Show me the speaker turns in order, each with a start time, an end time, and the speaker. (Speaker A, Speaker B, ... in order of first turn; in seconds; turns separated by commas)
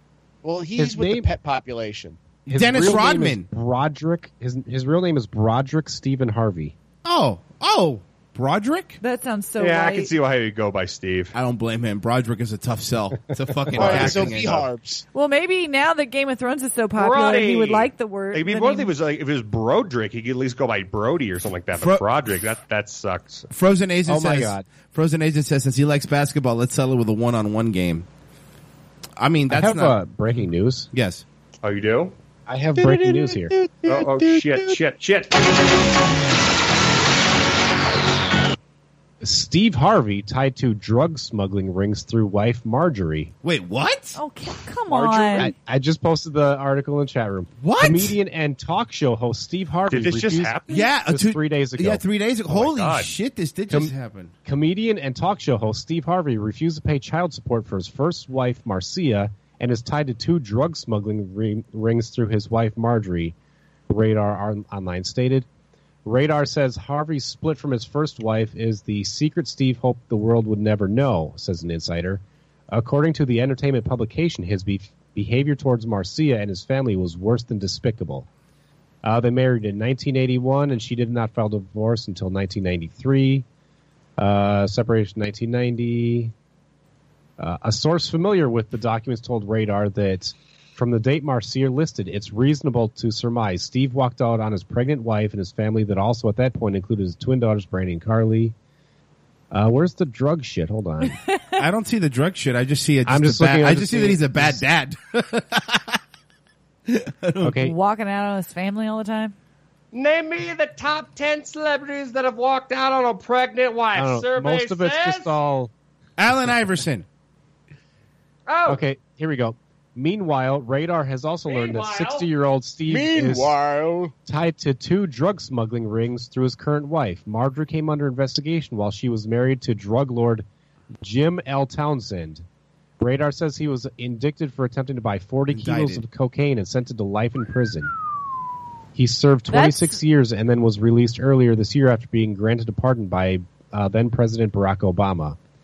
Speaker A: 0.4-2.2, Speaker B: 0.8-1.3, Speaker C: 2.5-3.5, Speaker B: 2.5-6.7, Speaker C: 7.0-9.0, Speaker D: 9.0-10.1, Speaker E: 9.6-11.3, Speaker C: 11.3-14.7, Speaker A: 13.7-15.0, Speaker E: 13.8-14.3, Speaker D: 15.1-18.9, Speaker E: 17.0-23.5, Speaker C: 21.7-22.0, Speaker C: 23.5-28.1, Speaker B: 24.1-24.6, Speaker C: 29.2-30.0, Speaker B: 29.5-30.9, Speaker C: 30.9-31.2, Speaker E: 31.6-32.1, Speaker B: 32.5-33.5, Speaker A: 32.7-34.8, Speaker E: 33.9-35.3, Speaker B: 39.2-43.3, Speaker C: 43.4-44.2, Speaker D: 44.1-45.5, Speaker B: 45.4-52.0, Speaker C: 47.6-48.2, Speaker E: 49.9-50.8, Speaker C: 50.7-54.3, Speaker E: 52.5-53.1, Speaker B: 54.5-63.3, Speaker B: 63.9-65.5, Speaker B: 66.0-78.3, Speaker B: 79.0-83.4, Speaker B: 84.2-86.3, Speaker B: 87.4-98.5, Speaker B: 99.5-101.2, Speaker C: 101.5-106.0, Speaker B: 103.1-104.6, Speaker C: 106.9-107.7, Speaker B: 107.4-107.7, Speaker D: 107.6-109.3, Speaker E: 109.9-115.4, Speaker B: 113.9-115.7, Speaker C: 116.2-117.0, Speaker E: 118.5-118.8, Speaker B: 118.7-123.5, Speaker E: 121.5-122.3, Speaker A: 122.9-124.1, Speaker B: 124.2-130.4, Speaker B: 131.0-132.4, Speaker B: 133.0-137.9, Speaker C: 135.5-136.0, Speaker B: 138.9-145.4, Speaker D: 139.5-140.0